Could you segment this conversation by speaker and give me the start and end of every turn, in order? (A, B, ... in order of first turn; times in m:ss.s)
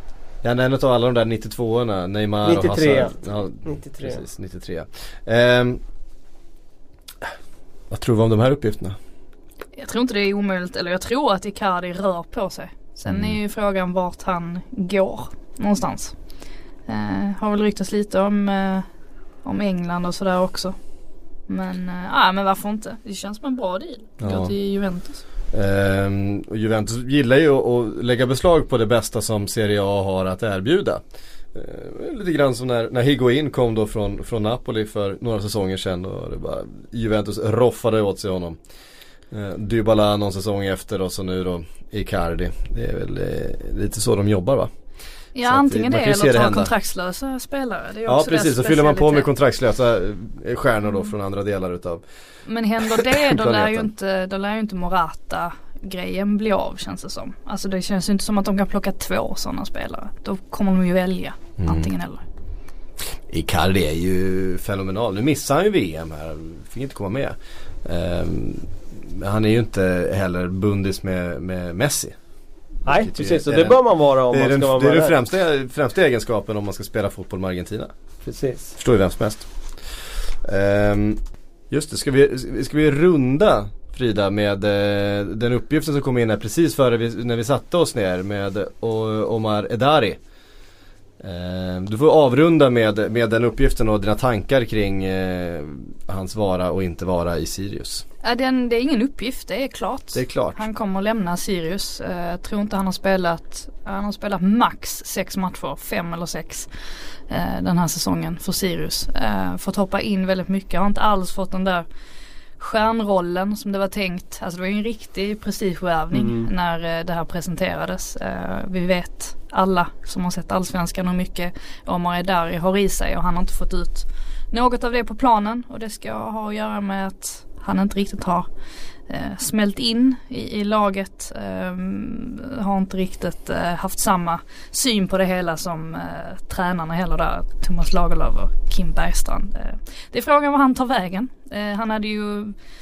0:00.4-0:05.8 A
0:02.4-0:04.2 B
0:07.9-0:09.0 A
0:09.8-0:16.2 C
0:13.1-0:13.4 A
0:16.9-0:18.9 C
0:19.4-0:20.8 C
0:21.5-0:25.2 C
0:24.2-0:24.5 A
0:25.5-0:31.0 A
0:31.5-0:38.6 A
0:39.3-0:44.7 A
0:45.4-0:49.3 C
0:45.4-0:46.7 A
0:48.1-0:52.0 A
0:52.5-1:02.2 C
0:53.0-0:53.9 A
1:01.6-1:01.9 A
1:03.1-1:12.2 A
1:12.9-1:15.2 B
1:12.9-1:17.9 A
1:18.2-1:18.8 B
1:18.8-1:30.2 A
1:31.2-1:38.0 A
1:38.2-1:46.7 C
1:40.1-1:40.6 A
1:47.3-1:51.9 C
1:52.6-2:08.5 C
1:56.1-1:56.5 B
2:09.1-2:22.6 C